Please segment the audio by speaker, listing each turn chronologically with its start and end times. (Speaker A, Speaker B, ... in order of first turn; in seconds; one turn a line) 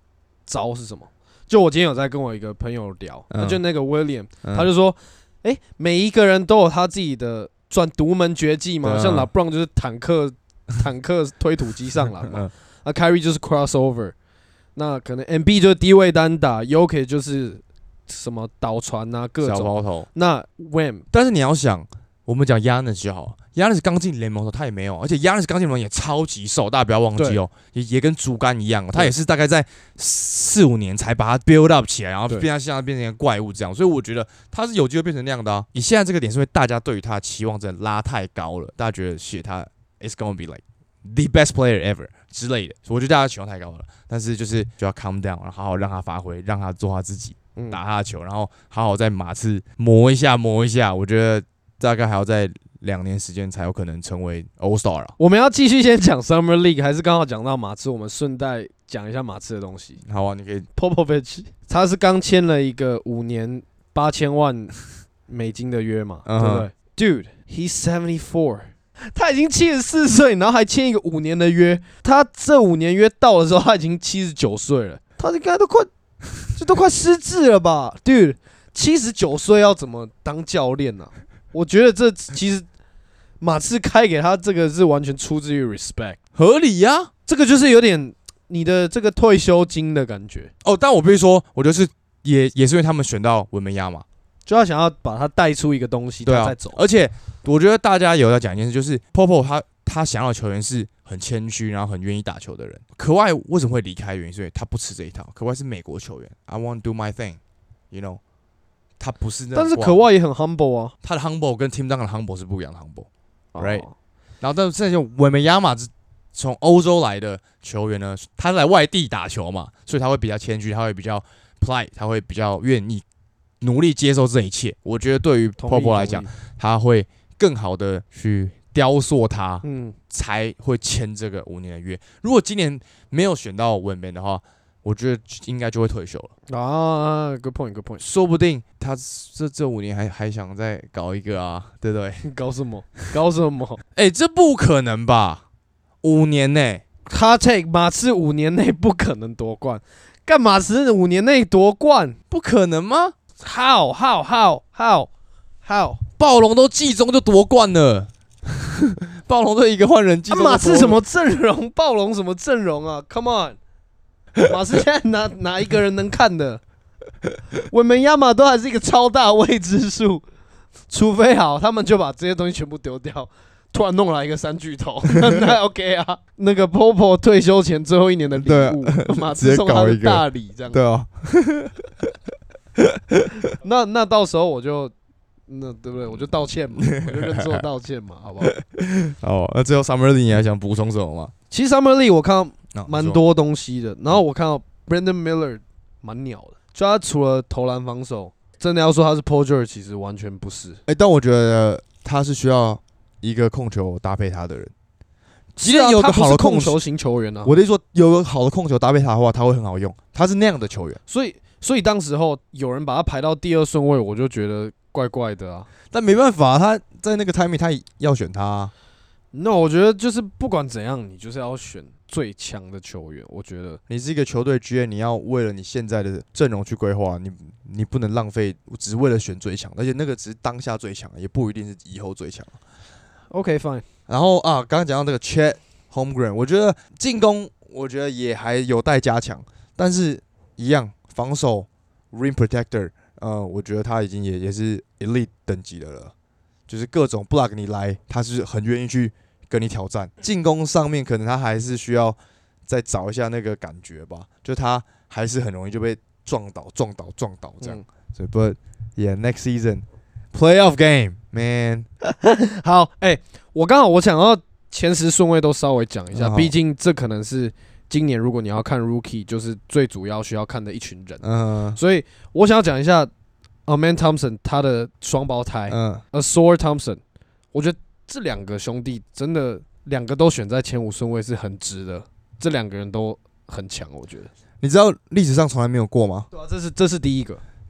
Speaker A: 0.5-14.2
Speaker B: 3.3-3.6
Speaker B: 4.4-4.7
Speaker B: 8.8-9.3
Speaker B: 12.2-12.5
Speaker A: 14.8-21.0
Speaker B: 19.4-20.1
Speaker B: 21.1-55.1
Speaker A: 27.2-27.4
Speaker A: 47.6-47.8
Speaker A: 55.2-60.0
Speaker B: 60.1-60.7
Speaker A: 60.8-64.8
Speaker A: 65.3-75.9
Speaker B: 66.2-66.7
Speaker A: 76.5-82.7
Speaker A: 83.4-86.2
Speaker B: 86.3-87.1
Speaker A: 87.3-90.5
Speaker B: 90.6-94.0
Speaker A: 94.5-96.8
Speaker B: 96.2-107.4
Speaker B: 107.9-108.2
Speaker B: 109.0-110.0
Speaker A: 109.5-110.9
Speaker B: 111.0-113.1
Speaker A: 113.5-113.9
Speaker B: 113.6-113.8
Speaker B: 114.4-123.0
Speaker B: 123.6-136.3
Speaker A: 125.6-126.3
Speaker A: 129.6-130.0
Speaker A: 136.5-138.0
Speaker B: 138.0-142.2
Speaker A: 142.2-143.8
Speaker B: 143.9-145.4
Speaker B: 146.0-146.8
Speaker A: 147.1-152.2
Speaker B: 152.3-153.2
Speaker A: 153.4-155.1
Speaker A: 155.6-156.0
Speaker B: 156.2-161.0
Speaker A: 160.3-163.6
Speaker A: 164.4-166.6
Speaker A: 167.7-170.2
Speaker A: 170.9-180.8
Speaker B: 178.4-181.8
Speaker B: 182.8-183.3
Speaker A: 183.5-184.9
Speaker A: 185.5-188.5
Speaker B: 186.8-187.6
Speaker B: 188.4-191.3
Speaker A: 191.5-200.8
Speaker B: 192.7-193.2
Speaker B: 200.9-204.7
Speaker A: 205.6-207.5
Speaker B: 205.6-206.8
Speaker B: 207.4-211.0
Speaker A: 211.1-215.7
Speaker B: 215.9-218.7
Speaker A: 219.3-223.8
Speaker B: 223.9-232.6
Speaker A: 233.3-233.8
Speaker B: 234.1-246.1
Speaker B: 246.7-261.9
Speaker A: 262.0-271.2
Speaker B: 266.1-266.5
Speaker B: 271.2-271.8
Speaker A: 271.8-273.1
Speaker A: 273.7-277.0
Speaker B: 275.7-276.0
Speaker A: 277.5-284.3
Speaker B: 284.6-286.3
Speaker A: 286.3-287.4